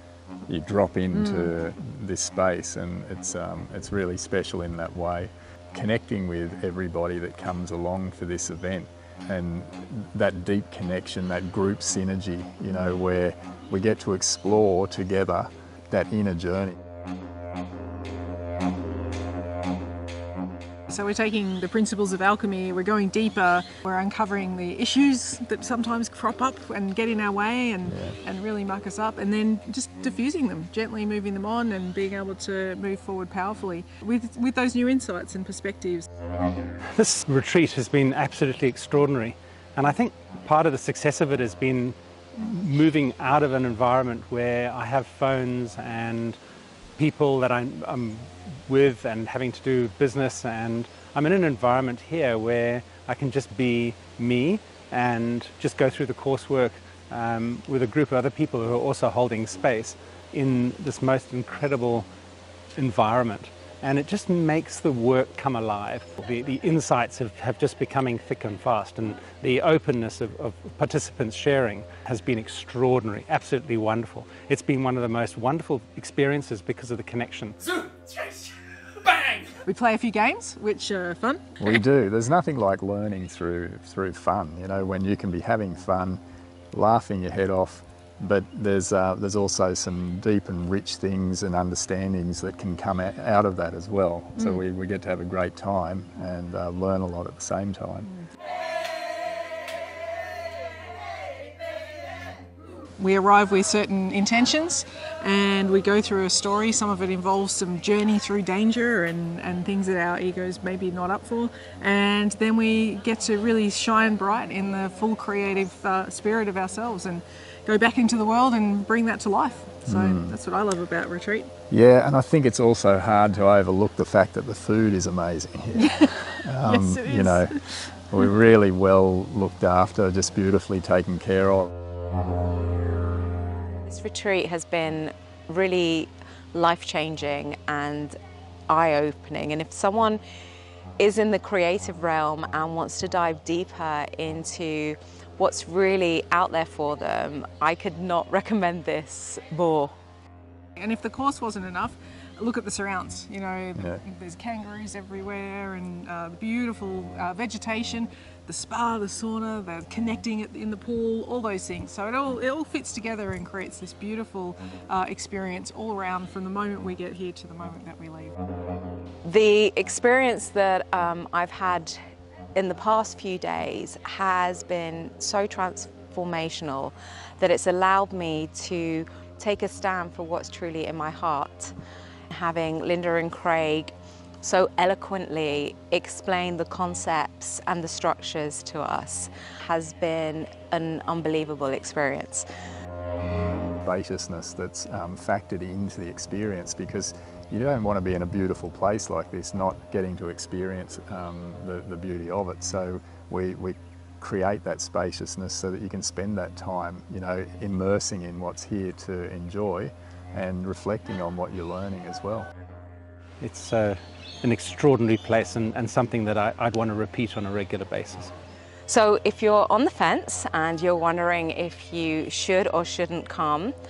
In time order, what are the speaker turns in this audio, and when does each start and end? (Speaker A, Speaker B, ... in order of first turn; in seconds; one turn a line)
Speaker A: 0.5-16.8
Speaker B: 1.1-1.5
Speaker B: 20.9-36.1
Speaker A: 27.9-28.2
Speaker C: 36.9-46.4
Speaker C: 47.0-62.1
Speaker C: 62.8-78.5
Speaker C: 79.0-79.6
Speaker B: 79.7-81.7
Speaker A: 81.6-86.2
Speaker A: 86.7-98.1
Speaker B: 103.0-121.5
Speaker A: 119.9-120.3
Speaker A: 121.7-131.7
Speaker B: 125.7-127.6
Speaker D: 133.9-138.2
Speaker D: 138.7-140.2
Speaker D: 141.0-149.9
Speaker B: 150.8-168.3
Speaker D: 169.2-171.9
Speaker D: 172.6-181.7
Speaker D: 182.3-192.5
Speaker A: 193.8-212.5
Speaker C: 213.4-218.3
Speaker D: 218.9-223.8